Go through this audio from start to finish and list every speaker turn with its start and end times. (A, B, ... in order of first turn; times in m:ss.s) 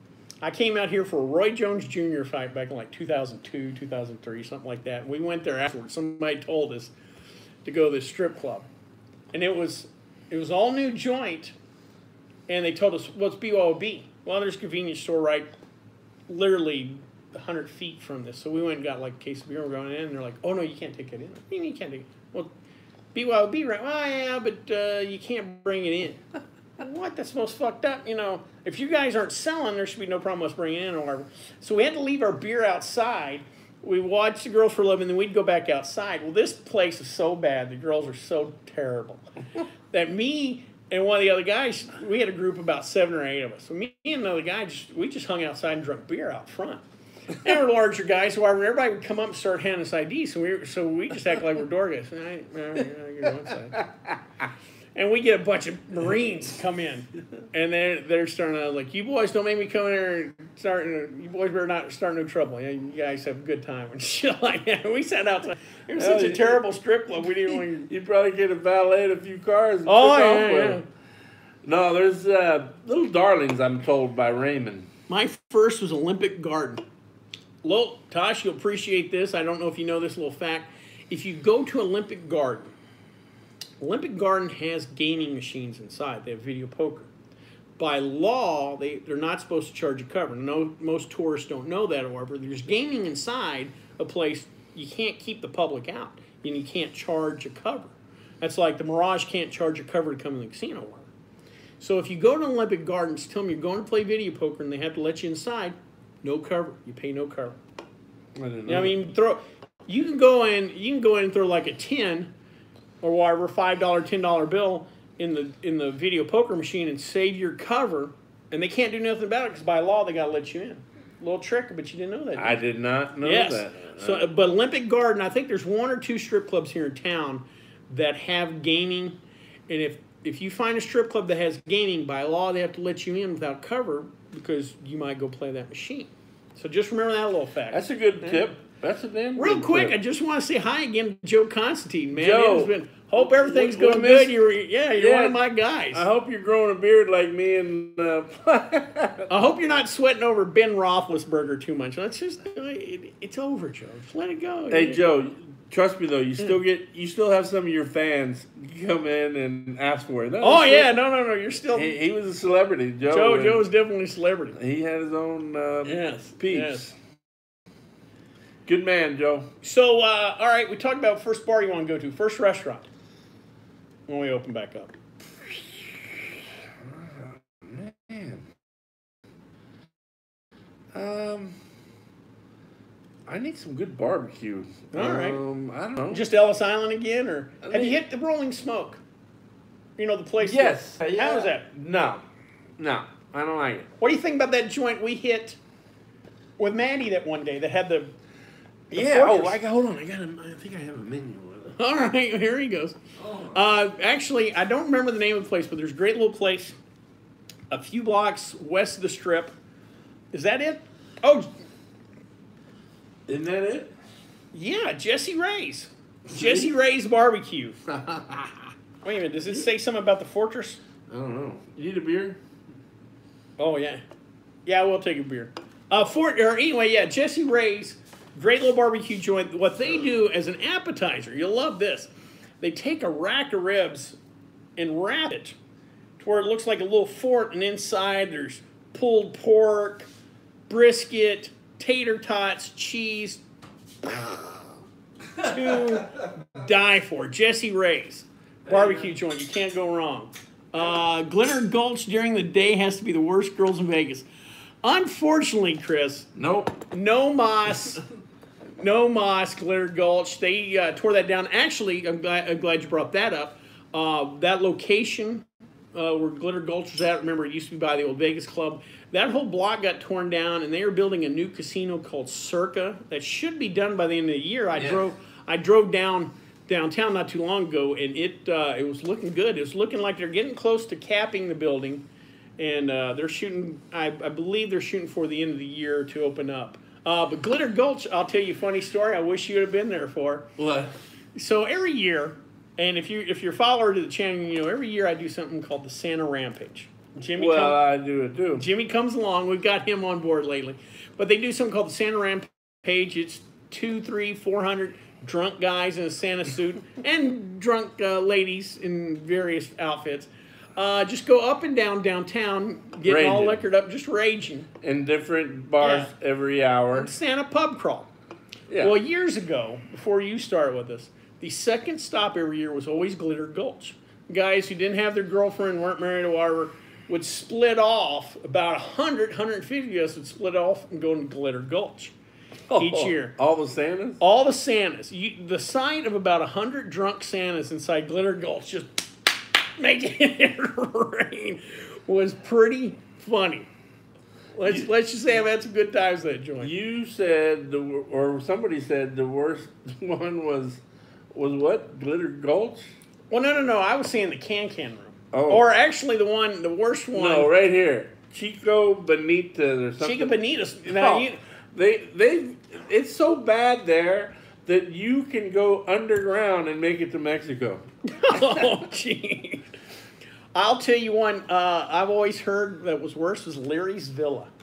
0:00.4-0:06.9 A
0:07.6-0:08.7 A
0:09.3-0:11.6 A
0:12.5-0:15.5 A
0:16.3-0:22.5 A
0:23.1-0:26.2 A
0:26.8-0:39.2 A
0:39.9-0:53.8 A
0:53.5-0:54.2 B
0:55.0-1:07.9 A
1:06.0-1:06.6 B
1:07.4-1:10.8 B
1:09.8-1:10.8 A
1:11.6-1:14.9 B
1:15.1-1:16.8 A
1:17.6-1:22.7 A
1:23.8-1:27.1 A
1:27.8-1:41.1 A
1:41.8-1:47.6 A
1:48.4-1:49.0 B
1:48.7-1:52.3 A
1:53.0-2:02.6 A
2:02.4-2:04.3 B
2:03.2-2:18.5 A
2:17.7-2:20.0 B
2:19.4-2:26.1 A
2:22.2-2:24.4 B
2:25.0-2:25.4 B
2:25.9-2:29.3 B
2:29.3-2:35.0 A
2:34.7-2:41.0 B
2:40.4-2:42.0 A
2:41.7-2:43.7 B
2:43.1-2:44.6 A
2:44.6-2:47.0 B
2:45.8-2:46.9 A
2:48.7-2:49.5 B
2:49.6-2:52.9 A
2:54.1-2:55.0 A
2:55.4-2:58.5 B
3:00.9-3:01.6 B
3:03.3-3:06.2 B
3:04.9-3:05.4 A
3:06.1-3:09.0 A
3:07.6-3:08.0 B
3:10.0-3:11.7 A
3:10.4-3:12.2 B
3:12.8-3:13.9 B
3:14.0-3:15.6 A
3:16.6-3:18.1 A
3:18.9-3:19.6 A
3:18.9-3:21.8 B
3:21.7-3:23.0 A
3:23.2-3:23.6 B
3:23.5-3:26.8 A
3:27.7-3:29.5 A
3:30.3-3:31.5 A
3:33.3-3:33.9 B
3:34.5-3:37.8 A
3:36.3-3:36.7 B
3:37.9-3:38.6 B
3:39.0-3:40.8 A
3:41.1-3:42.4 B
3:43.6-3:44.0 A
3:44.7-3:54.2 A
3:54.8-3:55.6 A
3:56.2-4:00.1 A
4:00.7-4:03.4 A
4:04.1-4:04.3 A
4:05.4-4:06.0 B
4:05.4-4:14.3 A
4:08.7-4:09.1 B
4:14.8-4:16.3 A
4:16.4-4:16.8 B
4:16.9-4:18.0 A
4:18.8-4:42.1 A
4:34.8-4:35.0 B
4:42.6-4:50.5 A
4:50.6-4:51.0 B
4:51.4-4:57.8 A
4:57.4-4:58.7 B
4:58.6-5:14.7 A
5:13.0-5:13.6 B
5:14.8-5:17.1 B
5:15.8-5:16.1 A
5:16.9-5:18.1 A
5:18.7-5:19.0 B
5:18.8-5:32.1 A
5:32.7-5:34.2 B
5:32.8-5:33.4 A
5:34.2-5:39.0 A
5:39.8-5:43.7 A
5:44.6-5:46.7 A
5:46.6-5:50.8 B
5:51.3-5:52.9 B
5:53.3-5:57.5 A
5:55.3-5:55.7 B
5:57.2-6:00.4 B
6:00.0-6:01.4 A
6:00.9-6:08.8 B
6:08.1-6:09.7 A
6:10.5-6:14.5 A